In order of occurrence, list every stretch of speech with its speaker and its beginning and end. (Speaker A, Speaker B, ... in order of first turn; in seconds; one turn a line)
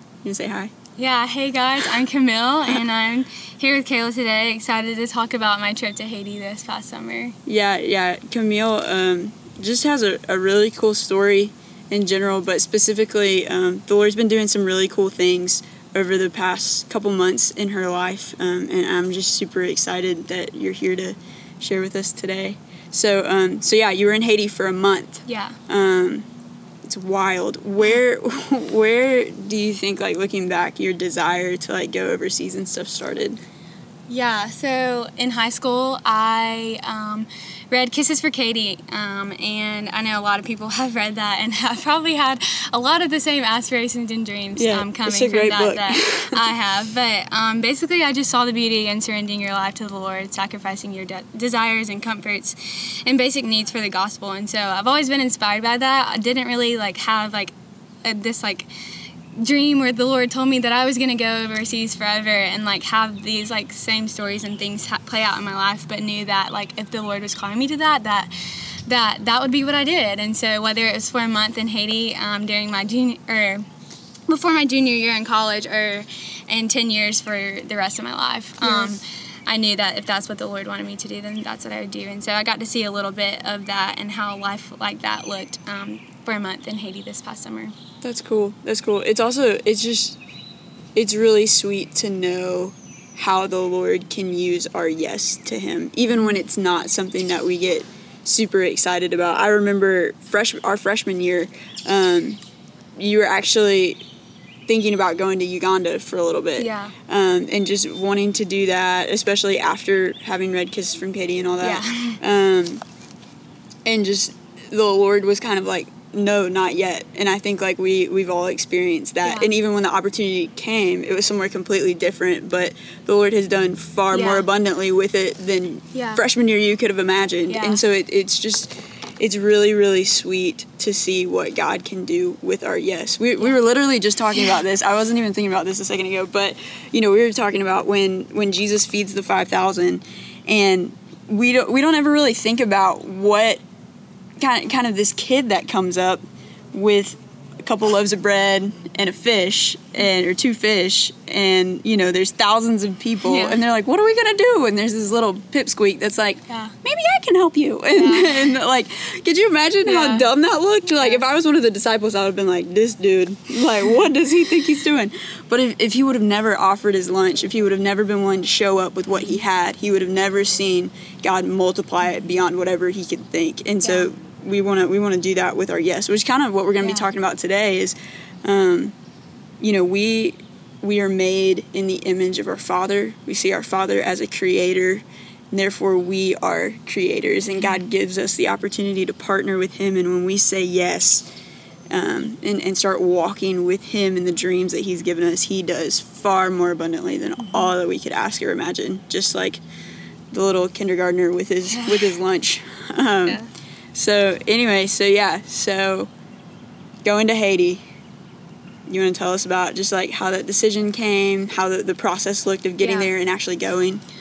Speaker A: 0.2-0.7
Speaker B: 1.0-7.3
Speaker A: 7.5-26.2
Speaker B: 25.2-25.6
Speaker A: 26.8-33.4
Speaker B: 34.1-58.7
Speaker A: 44.5-46.4
Speaker B: 59.3-73.7
Speaker B: 74.3-87.7
Speaker A: 78.6-78.9
Speaker A: 88.0-90.2
Speaker A: 90.9-102.4
Speaker A: 103.0-104.0
Speaker A: 104.7-112.8
Speaker B: 106.6-106.9
Speaker B: 111.6-112.2
Speaker A: 113.8-143.6
Speaker B: 119.2-119.5
Speaker B: 124.1-124.5
Speaker B: 125.9-126.2
Speaker B: 127.5-127.8
Speaker A: 144.4-178.9
Speaker B: 153.2-153.6
Speaker B: 156.5-156.7
Speaker B: 157.9-158.5
Speaker B: 159.8-160.2
Speaker B: 173.8-174.1
Speaker B: 176.8-177.1
Speaker A: 179.6-191.2
Speaker A: 191.9-199.6
Speaker A: 200.3-203.4
Speaker B: 201.7-202.2
Speaker A: 203.9-206.1
Speaker A: 207.0-207.8
Speaker A: 208.9-214.0
Speaker B: 212.8-213.1